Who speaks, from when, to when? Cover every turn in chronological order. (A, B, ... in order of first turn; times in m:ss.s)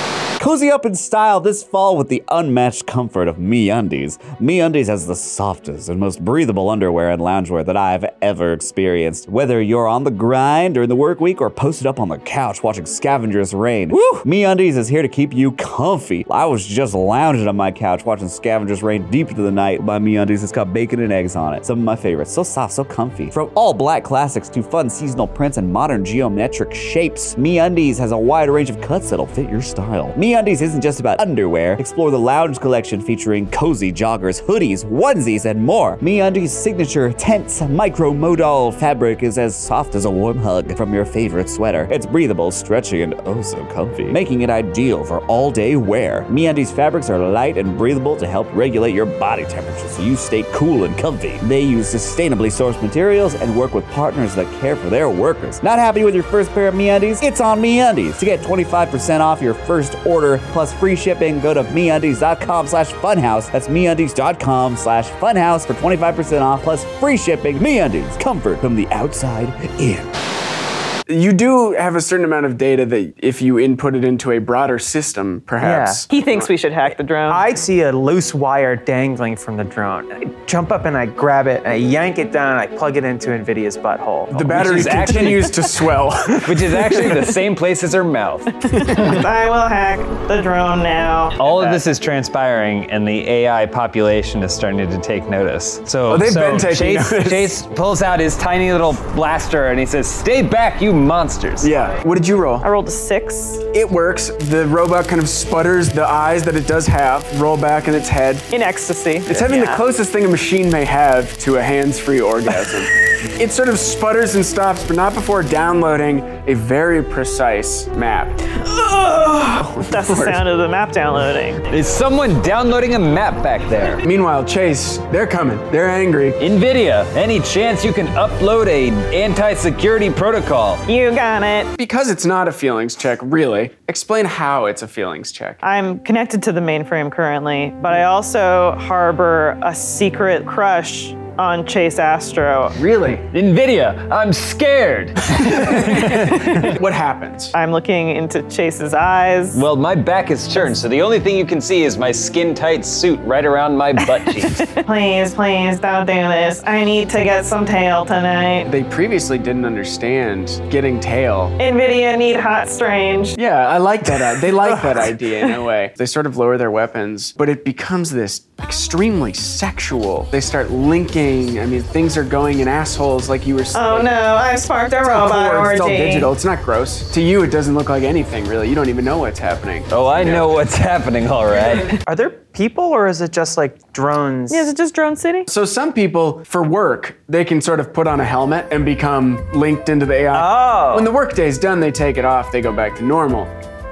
0:00.4-1:10.1 A
1:11.1-1:16.5 B
1:15.6-1:16.0 C
1:16.1-1:17.4 D
1:17.3-1:24.6 C
1:24.3-1:27.2 B
1:24.5-1:25.5 E
1:26.4-1:29.0 E
1:28.6-1:31.5 D
1:28.7-1:29.1 B
1:31.4-1:41.7 E
1:36.1-1:37.6 B
1:41.6-1:42.6 B
1:42.6-1:43.6 D
1:43.7-1:48.5 B
1:48.5-1:49.8 D
1:49.3-1:58.5 B
1:58.6-2:01.6 D
1:59.5-2:00.4 B
2:01.7-2:04.0 E
2:04.0-2:06.4 B
2:06.4-2:10.8 E
2:10.9-2:11.7 D
2:11.8-2:15.6 B
2:15.6-2:22.8 D
2:22.7-2:23.2 B
2:23.3-2:26.7 E
2:25.6-2:27.5 B
2:26.3-2:26.6 D
2:27.5-2:29.6 D
2:29.5-2:34.7 E
2:34.6-2:38.7 D
2:38.6-2:41.5 B
2:41.6-2:43.4 D
2:43.4-2:54.1 B
2:53.7-2:56.3 D
2:55.0-3:00.5 B
2:59.9-3:01.9 E
3:02.0-3:04.7 C
3:04.5-3:05.5 D
3:05.5-3:13.5 B
3:10.3-3:11.1 C